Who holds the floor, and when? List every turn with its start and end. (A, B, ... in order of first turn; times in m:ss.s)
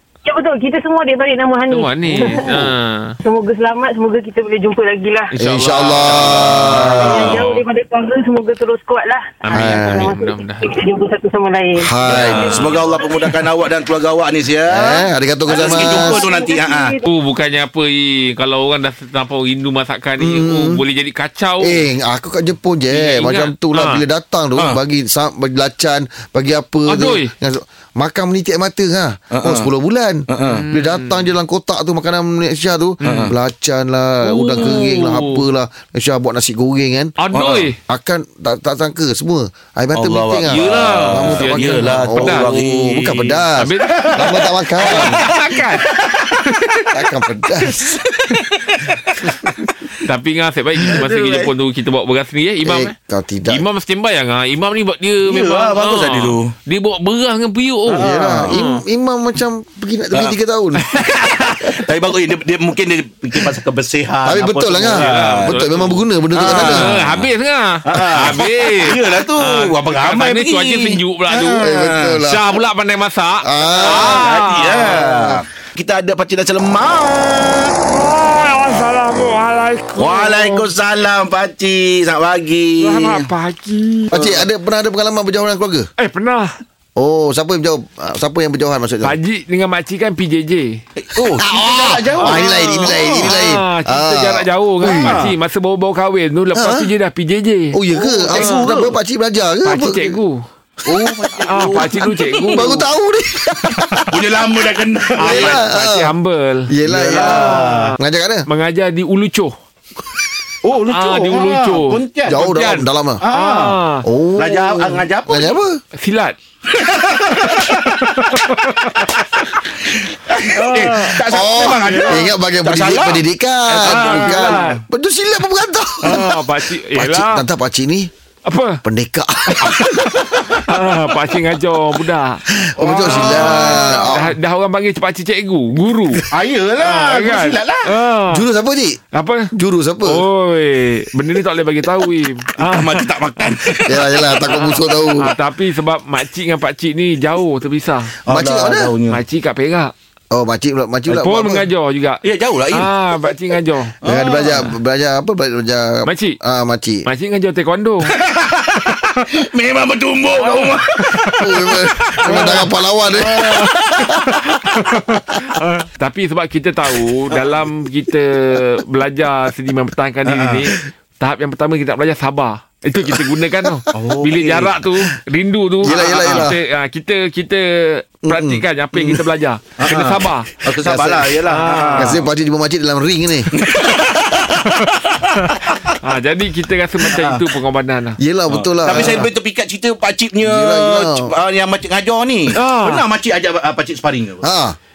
0:00.2-0:02.7 A
0:01.7-0:03.1 B
0:03.2-0:05.3 A
0:05.3-0:07.6 B
0:05.4-0:07.4 C
0:06.8-0:13.3 A
0:09.4-0:10.7 B
0:09.5-0:10.1 C
0:11.8-0:12.7 C
0:12.0-0:12.8 B
0:12.0-0:17.0 D
0:14.7-0:16.3 C
0:15.5-0:17.0 A
0:17.0-0:21.8 B
0:20.2-0:20.8 C
0:21.6-0:37.1 C
0:22.9-0:24.0 B
0:24.6-0:24.8 D
0:26.9-0:27.3 B
0:29.3-0:29.7 D
0:30.3-0:30.6 D
0:30.5-0:31.3 B
0:33.0-0:33.3 B
0:33.0-0:33.4 D
0:34.2-0:35.4 B
0:37.2-0:37.8 B
0:37.3-0:37.7 D
0:37.9-0:45.2 C
0:39.9-0:46.1 D
0:40.5-0:42.7 B
0:43.5-0:44.2 B
0:44.8-0:47.0 B
0:46.9-0:48.0 C
0:47.8-0:49.0 D
0:49.2-0:58.8 B
0:50.9-0:51.5 D
0:52.6-0:53.6 C
0:55.2-0:56.5 D
0:57.8-0:58.6 D
0:58.0-1:00.9 C
1:00.8-1:01.7 B
1:01.0-1:05.6 D
1:04.2-1:07.0 C
1:04.8-1:11.7 B
1:06.3-1:07.2 D
1:07.9-1:12.2 D
1:11.6-1:12.4 C
1:12.2-1:15.2 B
1:13.4-1:14.3 C
1:13.8-1:17.8 D
1:15.0-1:15.4 C
1:17.9-1:20.7 B
1:20.0-1:23.3 D
1:22.8-1:24.4 B
1:24.1-1:25.9 C
1:24.1-1:24.4 D
1:26.0-1:26.5 B
1:27.0-1:29.2 C
1:29.0-1:30.8 B
1:31.0-1:33.4 D
1:31.2-1:35.3 C
1:32.2-1:38.9 B
1:34.8-1:35.3 D
1:36.5-1:36.9 C
1:37.7-1:40.2 C
1:37.9-1:39.0 D
1:39.6-1:40.4 B
1:40.8-1:42.7 D
1:40.8-1:44.3 C
1:41.4-1:42.9 B
1:43.7-1:44.0 B
1:44.1-1:45.6 D
1:45.1-1:49.5 B
1:45.2-1:46.1 C
1:46.7-1:48.5 C
1:46.9-1:47.9 D
1:50.6-1:52.4 D
1:50.8-1:54.0 B
1:52.2-1:53.2 C
1:53.2-1:53.8 D
1:54.0-1:55.8 C
1:54.4-1:55.6 D
1:56.0-1:56.4 B
1:56.7-1:57.9 D
1:57.4-1:59.4 B
1:59.8-2:04.8 D
2:00.4-2:02.3 B
2:01.2-2:08.1 C
2:03.7-2:04.8 B
2:06.0-2:07.4 B
2:08.4-2:08.8 B
2:08.8-2:10.0 C
2:09.6-2:16.2 B
2:12.6-2:14.3 C
2:12.8-2:14.0 D
2:16.3-2:17.8 D
2:16.8-2:18.4 B
2:18.3-2:19.0 C
2:19.1-2:19.5 B
2:19.5-2:20.2 C
2:20.0-2:23.9 B
2:22.6-2:24.2 D
2:23.8-2:25.3 C
2:24.4-2:28.2 B
2:28.2-2:29.2 D
2:28.3-2:29.0 C
2:29.1-2:29.9 B
2:30.3-2:31.7 C
2:31.1-2:33.9 B
2:32.2-2:32.9 D
2:34.0-2:37.0 C
2:34.0-2:34.7 D
2:36.0-2:36.4 B
2:37.0-2:38.1 B
2:38.1-2:42.7 D
2:40.3-2:41.4 B
2:41.4-2:43.6 C
2:42.2-2:42.7 B
2:43.3-2:44.6 D
2:43.3-3:00.7 B
2:50.2-2:50.7 D
2:53.9-2:54.9 D
2:55.8-2:56.5 D
2:55.8-2:56.6 C
2:58.3-2:59.2 C
2:59.8-3:02.2 D
3:00.8-3:03.5 C
3:01.4-3:02.2 B
3:03.5-3:05.7 D
3:06.0-3:08.2 B
3:07.1-3:07.4 D
3:08.2-3:09.3 C
3:08.5-3:14.4 D
3:10.4-3:11.3 C
3:12.5-3:13.0 B
3:14.4-3:14.8 C